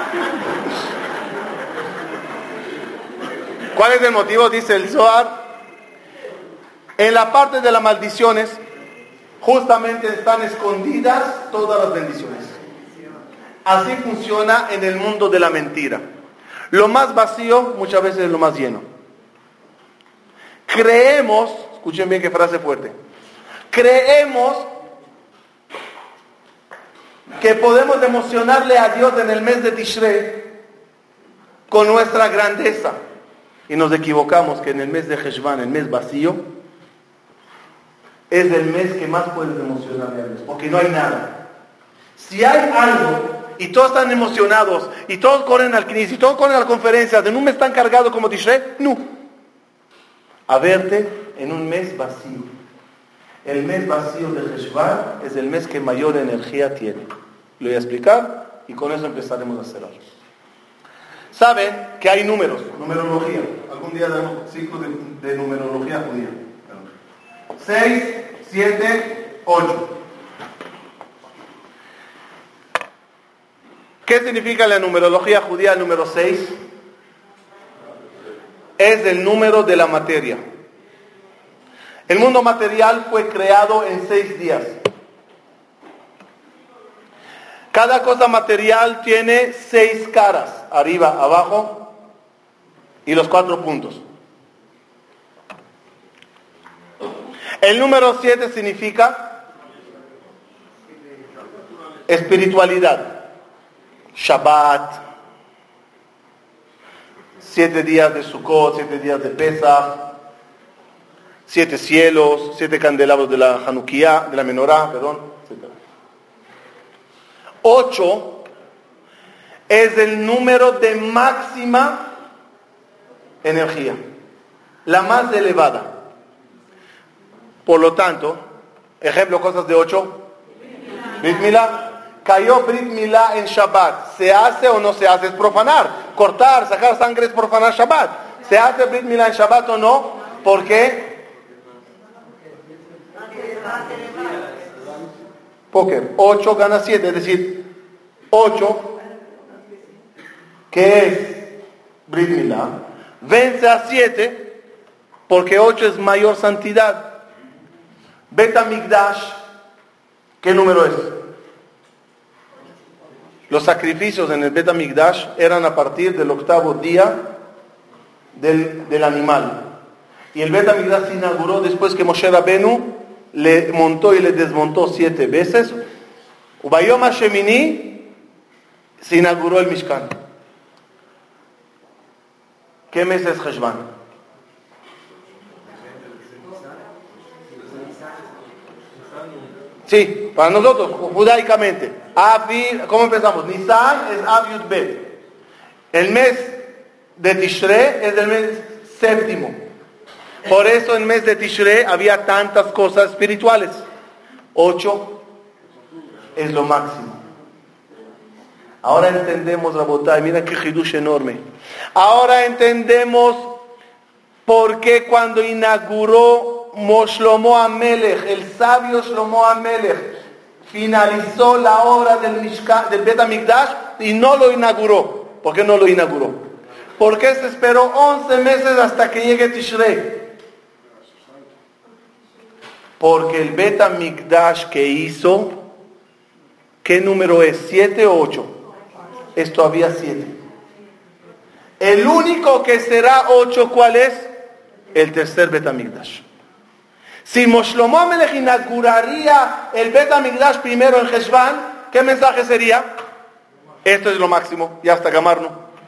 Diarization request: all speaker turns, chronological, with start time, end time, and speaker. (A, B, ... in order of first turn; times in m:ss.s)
0:03.8-0:05.4 A
0:07.0-0:08.6 A
0:09.4-0:12.6 A
0:13.6-0:16.0 A
0:16.7-0:18.8 A
0:20.7-0:23.0 A
0:23.7-0:24.7 A
0:27.4-0:30.5 A
0:31.7-0:33.0 A
0:33.7-0:36.4 A
0:38.3-0:41.4 A
0:42.2-0:49.0 A
0:50.5-0:52.5 A
0:53.4-0:57.1 A
0:57.6-1:00.0 A
1:01.3-1:06.9 A
1:07.6-1:09.9 A
1:14.0-1:16.6 A
1:18.8-1:20.4 A
1:22.1-1:24.8 A
1:27.7-1:31.9 A
1:33.1-1:34.0 A
1:37.6-1:39.4 A
1:42.1-1:43.2 A
1:44.2-1:45.0 A
1:47.4-1:50.1 A
1:51.5-1:55.8 A
1:57.6-1:58.4 A
1:59.7-2:02.0 A
2:03.4-2:04.0 A
2:04.8-2:05.9 A
2:07.7-2:08.4 A
2:09.0-2:10.2 A
2:11.2-2:21.2 A
2:25.7-2:27.6 A
2:28.3-2:29.0 A
2:30.7-2:31.5 A
2:32.1-2:34.5 A
2:35.3-2:37.1 A
2:38.3-2:39.4 A
2:40.4-2:41.2 A
2:43.5-2:47.2 A
2:48.4-2:49.6 A
2:50.3-2:55.8 A
2:56.6-2:58.1 A
2:59.0-3:00.1 A
3:02.9-3:03.8 A
3:09.9-3:15.1 A
3:15.9-3:16.6 A
3:17.2-3:19.6 A
3:20.5-3:23.8 A
3:24.6-3:25.2 A
3:26.4-3:27.2 A
3:28.8-3:31.4 A
3:32.0-3:33.6 A
3:34.5-3:40.1 A
3:40.7-3:46.4 A
3:47.0-3:50.2 A
3:53.0-3:55.6 A
3:56.8-3:58.5 A
3:59.4-4:00.4 A
4:01.8-4:04.3 A
4:04.9-4:06.2 A
4:07.2-4:12.9 A
4:13.8-4:15.6 A